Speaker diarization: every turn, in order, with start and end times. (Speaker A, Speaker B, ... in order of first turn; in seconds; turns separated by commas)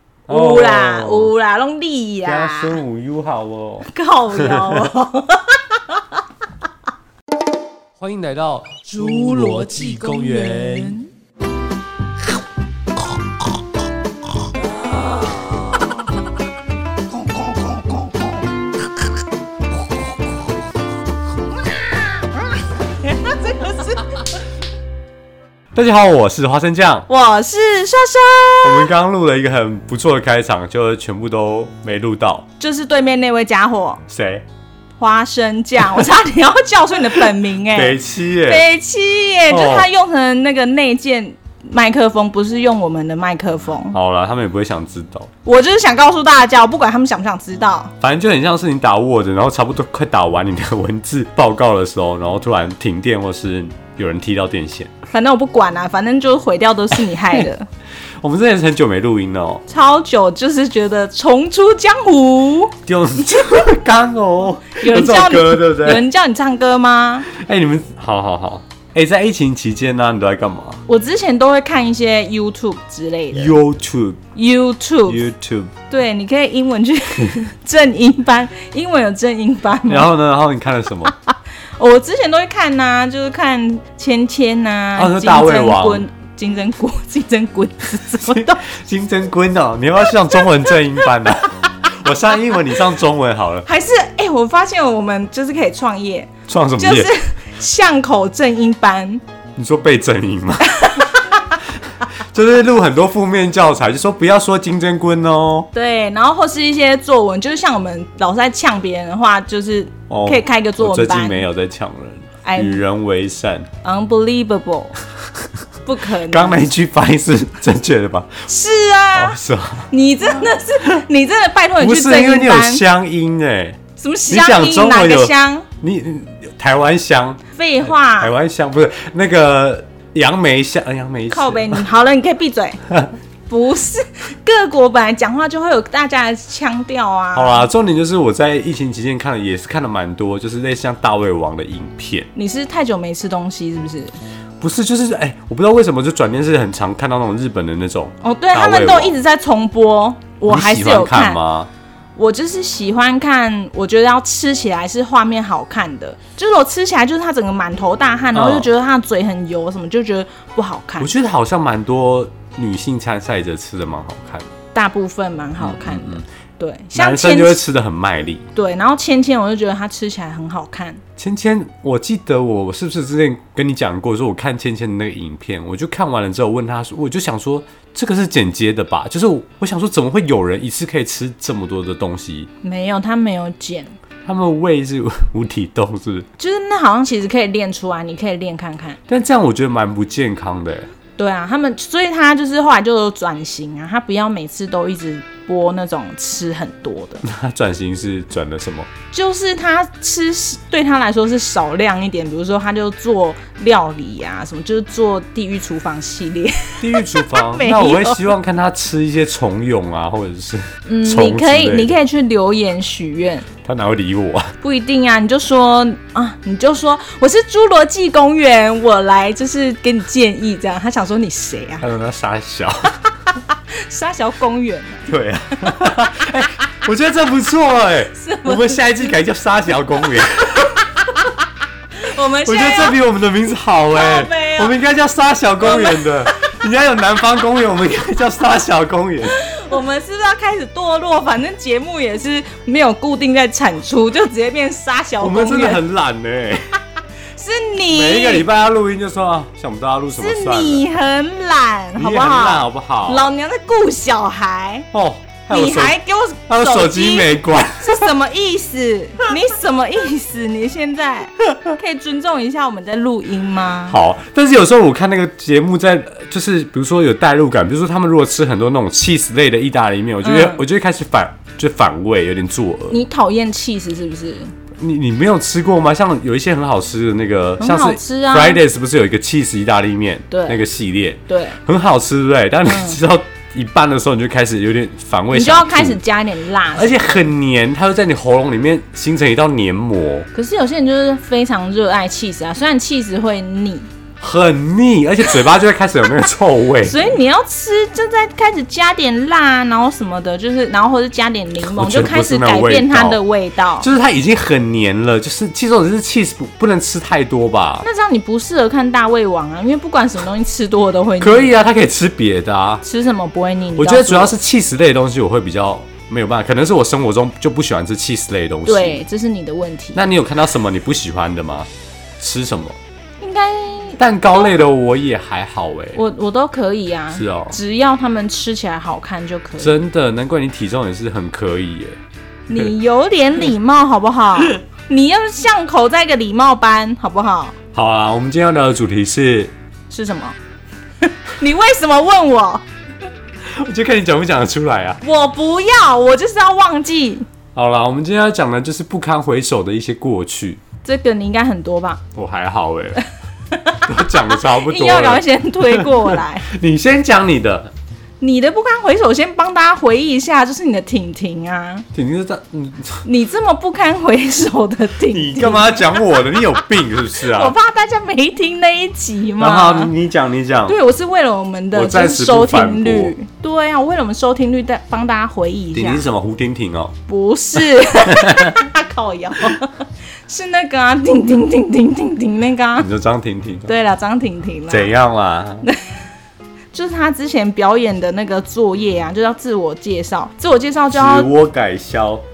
Speaker A: 0.3-1.3, Speaker B: 0.3-2.8, Speaker A: 2.2-4.9, Speaker B: 3.9-6.2, Speaker A: 8.0-11.0, Speaker B: 8.9-11.1, Speaker B: 14.8-15.6, Speaker B: 22.8-24.2, Speaker A: 25.7-27.1, Speaker B: 27.1-28.9, Speaker A: 28.6-32.5, Speaker B: 32.6-34.0, Speaker A: 34.1-34.4, Speaker B: 35.0-44.0, Speaker A: 37.7-38.6, Speaker A: 39.5-39.9, Speaker A: 43.9-45.3, Speaker B: 45.4-47.9, Speaker A: 48.0-54.9, Speaker B: 55.1-57.7, Speaker A: 58.2-59.6, Speaker B: 59.7-62.8, Speaker A: 62.9-66.0, Speaker B: 64.8-67.3, Speaker A: 67.3-70.8, Speaker B: 70.9-73.5, Speaker A: 73.3-74.2, Speaker B: 74.3-75.2, Speaker A: 75.0-75.7, Speaker B: 75.9-80.1, Speaker A: 79.8-81.1, Speaker B: 81.0-88.6, Speaker A: 85.0-86.0, Speaker A: 88.2-93.7, Speaker B: 93.6-99.2, Speaker A: 96.5-97.1, Speaker A: 99.6-101.0, Speaker B: 100.7-101.4, Speaker A: 102.0-105.7, Speaker B: 105.7-111.4, Speaker A: 110.1-113.7, Speaker B: 112.4-112.8, Speaker B: 113.8-114.9, Speaker B: 115.8-116.7, Speaker A: 116.2-118.5, Speaker B: 118.5-119.4, Speaker A: 119.1-119.9, Speaker B: 119.9-122.8, Speaker A: 121.8-131.8, Speaker B: 124.0-125.7, Speaker B: 127.5-128.3, Speaker B: 131.3-132.8, Speaker B: 133.5-137.7, Speaker A: 137.3-142.3, Speaker B: 142.3-144.1, Speaker A: 144.6-149.2, Speaker B: 148.2-151.4, Speaker A: 150.5-151.7, Speaker B: 152.2-161.1, Speaker A: 158.3-158.7, Speaker A: 161.0-164.5, Speaker B: 164.7-167.6, Speaker A: 165.6-166.2, Speaker A: 166.9-168.5, Speaker B: 168.6-171.0, Speaker A: 171.2-182.5, Speaker B: 182.6-183.9, Speaker A: 184.2-186.3, Speaker B: 186.4-189.0, Speaker A: 189.1-190.9, Speaker B: 191.2-197.2, Speaker A: 197.2-198.9, Speaker B: 199.1-208.3, Speaker A: 206.8-211.9, Speaker B: 210.8-213.5, Speaker A: 213.6-214.5, Speaker B: 214.6-221.8, Speaker A: 221.8-222.9, Speaker B: 223.5-225.1, Speaker A: 225.1-231.2, Speaker B: 228.1-228.9, Speaker B: 232.0-233.0, Speaker A: 232.4-239.4, Speaker B: 233.9-234.7, Speaker B: 235.6-236.3, Speaker B: 239.3-245.8, Speaker A: 245.2-246.7, Speaker B: 247.3-248.4, Speaker A: 247.9-250.8, Speaker B: 250.1-254.9, Speaker A: 251.9-253.3, Speaker A: 254.9-256.0, Speaker B: 255.5-264.0, Speaker A: 256.5-258.1, Speaker A: 263.9-273.0, Speaker B: 270.2-270.6, Speaker B: 272.9-274.5, Speaker A: 274.8-286.0, Speaker B: 277.6-278.6, Speaker B: 280.3-280.6, Speaker B: 281.3-281.6, Speaker B: 282.6-283.0, Speaker B: 285.3-287.1, Speaker A: 286.7-290.3, Speaker B: 290.3-293.9, Speaker A: 294.2-297.1, Speaker B: 296.8-303.9, Speaker A: 301.6-303.2, Speaker A: 303.8-307.9, Speaker B: 307.8-311.5, Speaker A: 311.2-312.8, Speaker B: 312.8-314.3, Speaker A: 313.8-319.0, Speaker B: 318.6-320.0, Speaker A: 319.9-321.7, Speaker A: 322.2-322.8, Speaker B: 323.2-324.4, Speaker A: 324.0-326.0, Speaker B: 325.9-329.8, Speaker A: 327.1-327.6, Speaker A: 329.6-332.0, Speaker B: 332.5-337.6, Speaker A: 337.7-339.5, Speaker B: 339.9-340.4, Speaker B: 341.0-342.6, Speaker A: 343.5-345.0, Speaker B: 345.0-347.2, Speaker A: 347.5-350.6, Speaker B: 350.8-352.0, Speaker A: 352.1-353.1, Speaker B: 353.5-356.5, Speaker A: 353.8-357.7, Speaker B: 358.2-361.9, Speaker A: 361.9-363.0, Speaker B: 363.0-369.9, Speaker A: 365.1-367.5, Speaker A: 369.4-370.8, Speaker B: 370.6-376.1, Speaker A: 371.7-373.1, Speaker A: 375.7-376.9, Speaker B: 377.1-382.9, Speaker A: 377.7-378.6, Speaker A: 382.8-383.7, Speaker B: 383.7-384.9, Speaker A: 384.7-385.7, Speaker B: 386.7-391.3, Speaker A: 390.9-392.2